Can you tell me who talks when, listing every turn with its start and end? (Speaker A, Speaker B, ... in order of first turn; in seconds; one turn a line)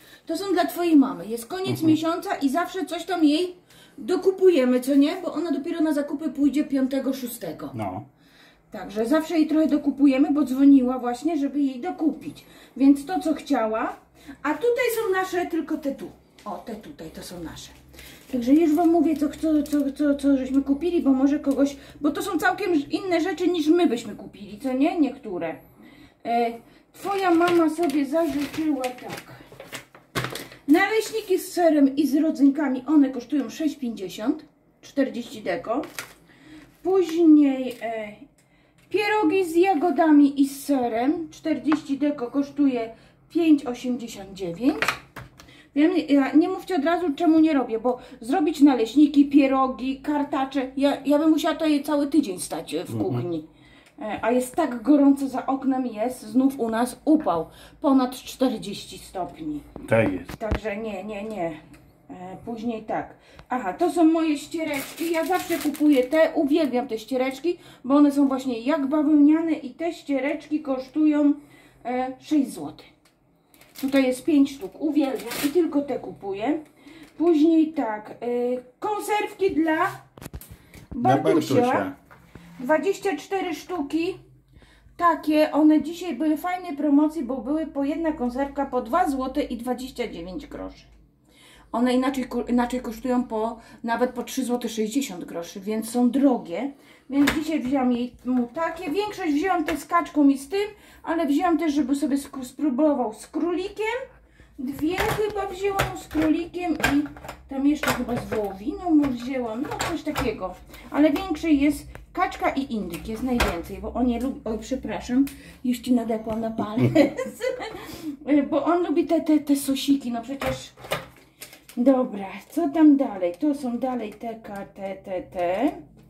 Speaker A: 0.2-7.8
Speaker B: 1.7-2.0
Speaker B: 7.7-8.1
Speaker A: 8.7-17.8
Speaker A: 18.3-25.6
Speaker A: 26.2-29.4
Speaker A: 30.7-35.9
Speaker A: 36.8-38.3
Speaker A: 38.9-45.0
Speaker A: 45.7-53.5
Speaker B: 52.9-53.2
Speaker A: 54.0-59.7
Speaker B: 59.8-60.3
Speaker A: 60.3-72.9
Speaker A: 73.8-76.6
Speaker A: 77.2-80.0
Speaker A: 80.9-81.9
Speaker B: 81.0-82.0
Speaker A: 82.6-84.2
Speaker A: 85.0-90.9
Speaker A: 91.7-104.0
Speaker A: 104.6-120.8
Speaker A: 121.8-125.8